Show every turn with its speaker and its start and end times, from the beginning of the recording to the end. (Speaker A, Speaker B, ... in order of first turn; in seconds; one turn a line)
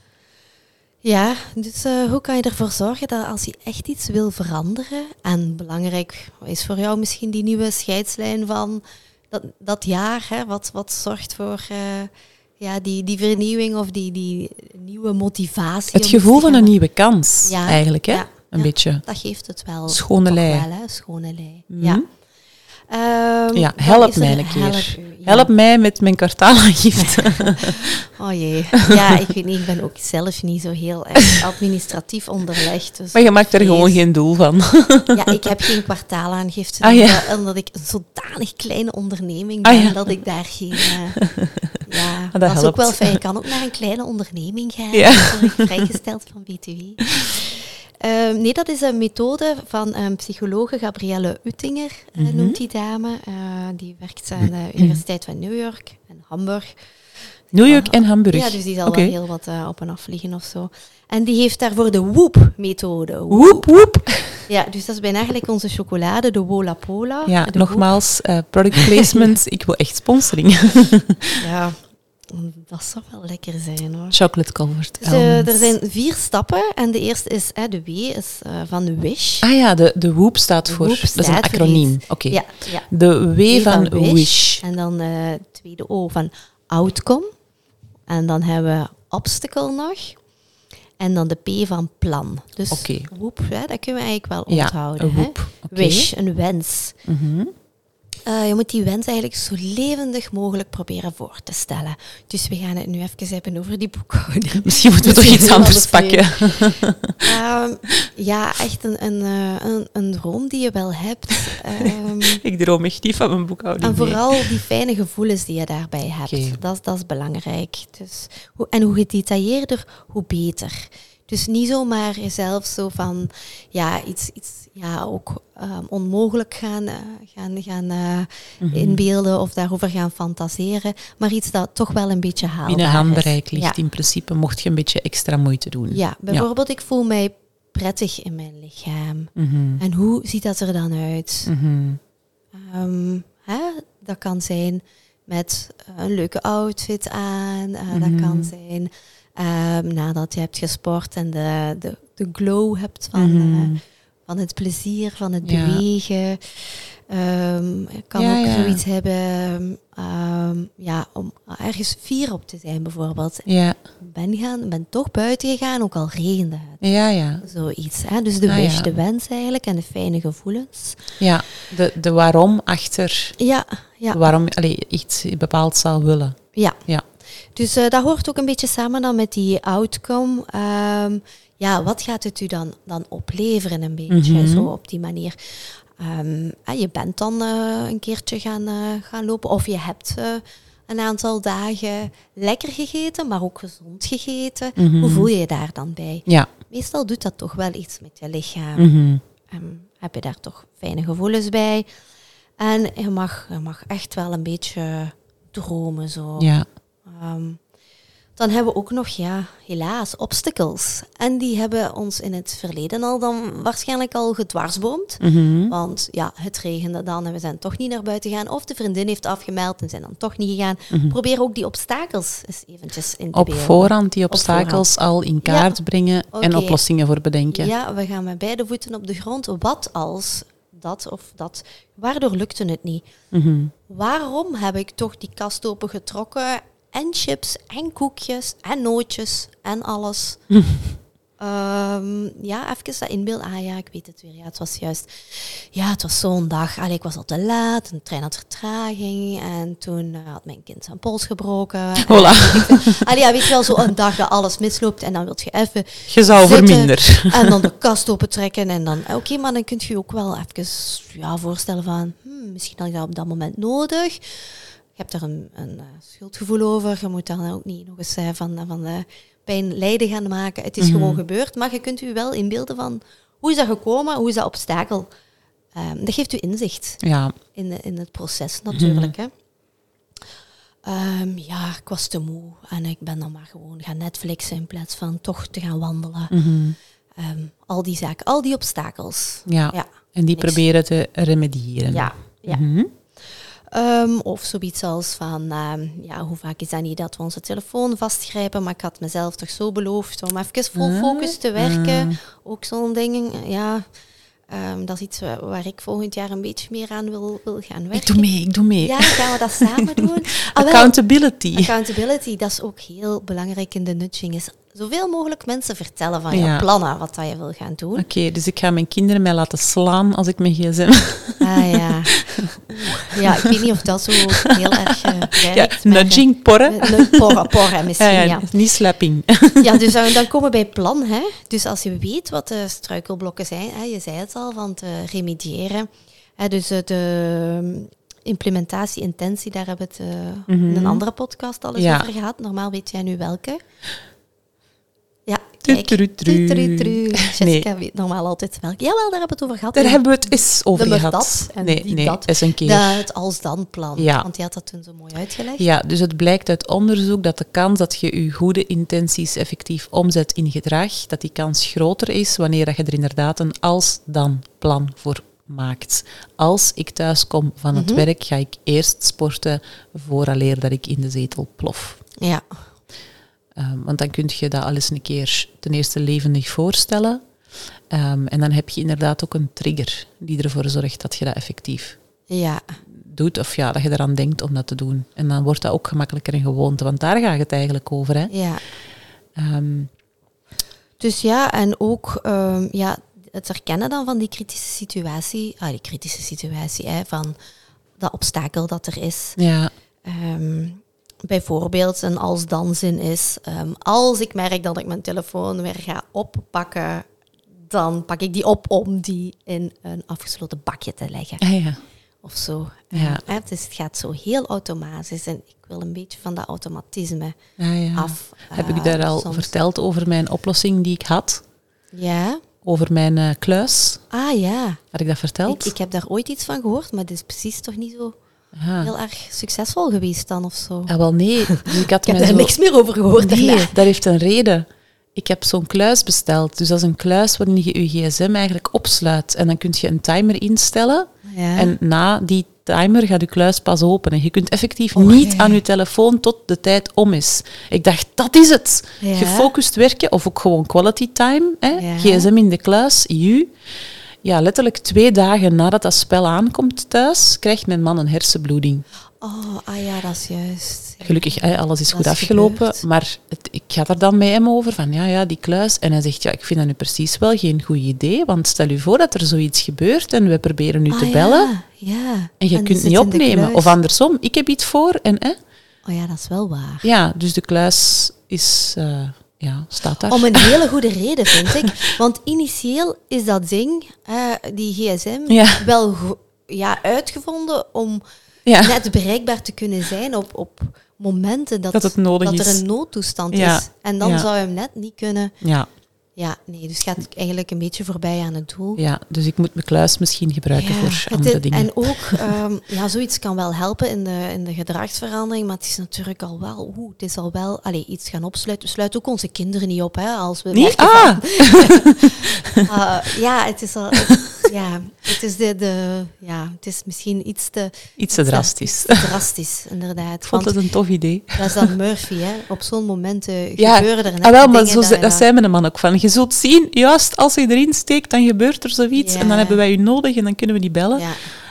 Speaker A: 1.0-16.7
Speaker B: 15.9-19.0
Speaker A: 17.4-22.0
Speaker B: 19.9-20.6
Speaker B: 21.7-22.0
Speaker A: 22.9-25.5
Speaker B: 23.5-28.0
Speaker A: 27.0-34.0
Speaker B: 33.1-35.4
Speaker A: 35.1-41.2
Speaker B: 36.8-37.3
Speaker B: 39.6-40.0
Speaker B: 40.7-41.8
Speaker A: 41.9-56.7
Speaker B: 42.3-43.2
Speaker B: 44.9-45.8
Speaker B: 52.2-52.6
Speaker A: 57.5-68.0
Speaker B: 57.5-59.1
Speaker B: 63.3-64.4
Speaker B: 67.2-71.4
Speaker A: 68.7-69.3
Speaker A: 71.4-74.2
Speaker B: 74.1-75.7
Speaker A: 75.0-79.5
Speaker B: 79.4-84.6
Speaker A: 80.7-82.9
Speaker A: 83.5-87.3
Speaker A: 88.1-90.2
Speaker A: 91.0-97.0
Speaker B: 92.7-93.1
Speaker B: 94.5-96.1
Speaker B: 97.0-97.5
Speaker A: 98.2-112.4
Speaker B: 104.6-107.2
Speaker B: 111.8-114.5
Speaker A: 113.8-133.8
Speaker B: 116.3-116.6
Speaker B: 128.6-129.0
Speaker B: 132.7-136.5
Speaker A: 135.9-141.5
Speaker B: 139.3-139.8
Speaker B: 141.4-142.0
Speaker A: 142.5-163.4
Speaker B: 147.9-148.5
Speaker B: 153.1-153.8
Speaker B: 155.4-155.8
Speaker B: 158.1-158.8
Speaker B: 163.4-163.8
Speaker A: 164.0-166.8
Speaker B: 166.8-167.4
Speaker A: 167.4-171.1
Speaker B: 168.5-168.9
Speaker B: 171.2-173.3
Speaker A: 173.4-174.3
Speaker B: 174.1-177.0
Speaker A: 177.5-198.9
Speaker B: 184.1-184.7
Speaker B: 194.8-195.3
Speaker B: 198.8-199.2
Speaker A: 199.5-201.8
Speaker A: 202.6-206.5
Speaker B: 206.4-206.7
Speaker A: 207.0-207.6
Speaker A: 208.3-224.9
Speaker B: 215.2-215.7
Speaker B: 220.9-221.2
Speaker B: 223.3-227.7
Speaker A: 225.4-225.8
Speaker A: 226.3-226.8
Speaker A: 227.5-233.1
Speaker B: 233.3-233.7
Speaker A: 233.9-240.4
Speaker B: 240.5-240.9
Speaker A: 241.4-264.4
Speaker B: 252.0-253.9
Speaker B: 256.1-257.6
Speaker A: 264.9-275.1
Speaker B: 270.8-271.2
Speaker A: 275.7-277.0
Speaker B: 277.0-277.3
Speaker A: 277.5-279.3
Speaker B: 278.7-279.1
Speaker A: 280.8-286.3
Speaker B: 286.3-286.8
Speaker A: 287.2-290.6
Speaker B: 289.5-292.9
Speaker A: 291.9-292.6
Speaker A: 293.3-303.9
Speaker B: 300.8-302.1
Speaker A: 304.5-308.3
Speaker B: 307.9-311.7
Speaker A: 308.8-310.9
Speaker A: 311.5-318.1
Speaker B: 316.3-316.6
Speaker B: 318.0-323.6
Speaker A: 321.4-328.5
Speaker B: 324.4-330.0
Speaker A: 329.6-343.6
Speaker B: 340.5-341.0
Speaker B: 341.8-342.1
Speaker A: 345.2-350.0
Speaker B: 345.6-347.6
Speaker B: 349.7-353.1
Speaker A: 350.7-355.7
Speaker B: 354.0-354.3
Speaker B: 355.6-372.0
Speaker A: 367.7-368.1
Speaker A: 372.2-372.4
Speaker B: 373.5-377.2
Speaker B: 377.9-382.0
Speaker A: 382.3-382.8
Speaker B: 382.9-388.3
Speaker A: 388.3-388.6
Speaker B: 389.4-389.9
Speaker A: 391.0-397.3
Speaker A: 398.0-399.4
Speaker B: 399.4-399.7
Speaker A: 400.0-407.1
Speaker A: 407.7-411.4
Speaker B: 411.4-411.8
Speaker A: 412.2-417.3
Speaker B: 412.9-413.2
Speaker B: 417.6-421.4
Speaker A: 417.9-419.5
Speaker A: 421.9-422.4
Speaker B: 422.6-424.0
Speaker A: 424.1-424.8
Speaker B: 424.9-425.7
Speaker A: 425.4-428.1
Speaker B: 428.5-428.9
Speaker A: 428.8-433.8
Speaker B: 430.9-432.5
Speaker B: 433.1-453.5
Speaker A: 441.2-441.7
Speaker A: 444.9-445.6
Speaker A: 449.0-449.5
Speaker A: 451.7-452.3
Speaker B: 454.2-458.8
Speaker A: 459.2-462.8
Speaker B: 461.0-471.5
Speaker A: 470.9-473.7
Speaker B: 472.4-475.4
Speaker A: 475.9-476.8
Speaker B: 476.8-480.5
Speaker A: 480.1-488.0
Speaker B: 485.3-485.6
Speaker B: 488.4-488.8
Speaker A: 488.6-495.3
Speaker B: 491.7-492.6
Speaker B: 493.3-494.3
Speaker B: 495.4-495.7
Speaker A: 496.1-498.8
Speaker B: 498.8-502.3
Speaker A: 500.5-520.6
Speaker B: 510.5-512.6
Speaker B: 514.1-514.4
Speaker B: 518.0-519.1
Speaker B: 520.2-521.7
Speaker A: 521.3-525.2
Speaker B: 523.6-531.1
Speaker A: 529.0-529.6
Speaker A: 530.9-531.3